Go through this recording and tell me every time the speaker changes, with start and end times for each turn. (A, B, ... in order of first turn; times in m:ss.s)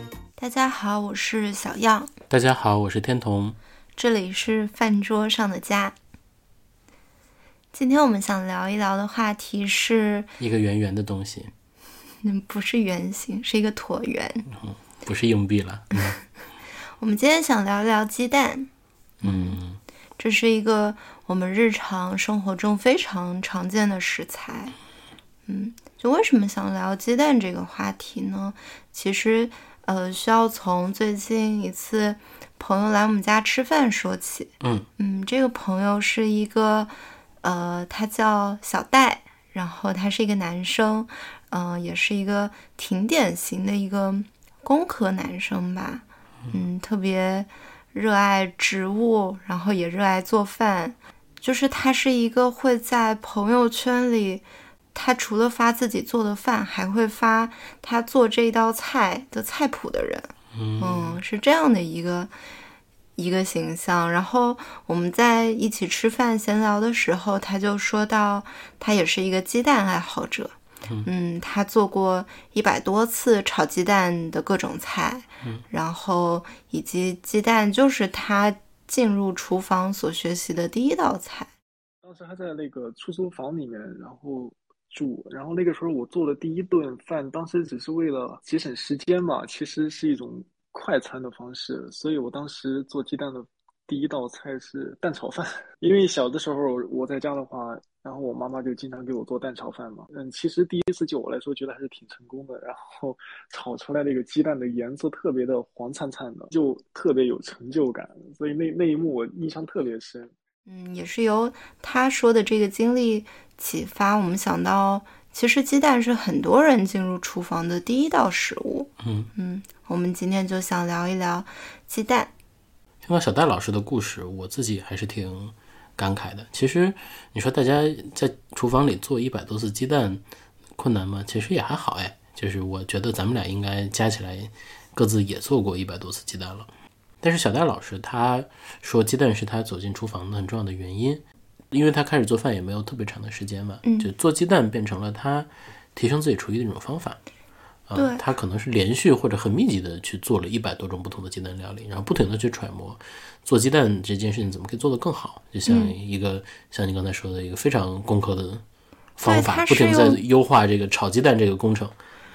0:00.4-0:02.1 A
0:02.3-0:03.6 B
0:04.0-0:05.9 A
0:07.7-0:10.3 A
0:10.4-0:11.5 B
0:12.2-0:14.5 A
0:14.5-0:16.2 B
0:17.0-0:18.7 A
0:19.2-0:19.6 A
0:19.2-0:19.8 B
0:20.2-0:24.8 A
0:25.4-1:02.3 A
0:34.6-0:34.9 B
1:00.5-1:01.2 B
1:03.2-1:21.5 A
1:22.0-1:50.3 C
1:50.7-2:02.3 A
1:59.0-1:59.3 B
2:03.0-2:10.2 B
2:10.8-2:16.7 B
2:17.2-2:27.2 B
2:23.8-2:24.1 A
2:27.9-2:38.6 B
2:27.9-2:28.2 A
2:35.6-2:35.9 A
2:39.2-2:41.9 B
2:39.2-2:40.2 A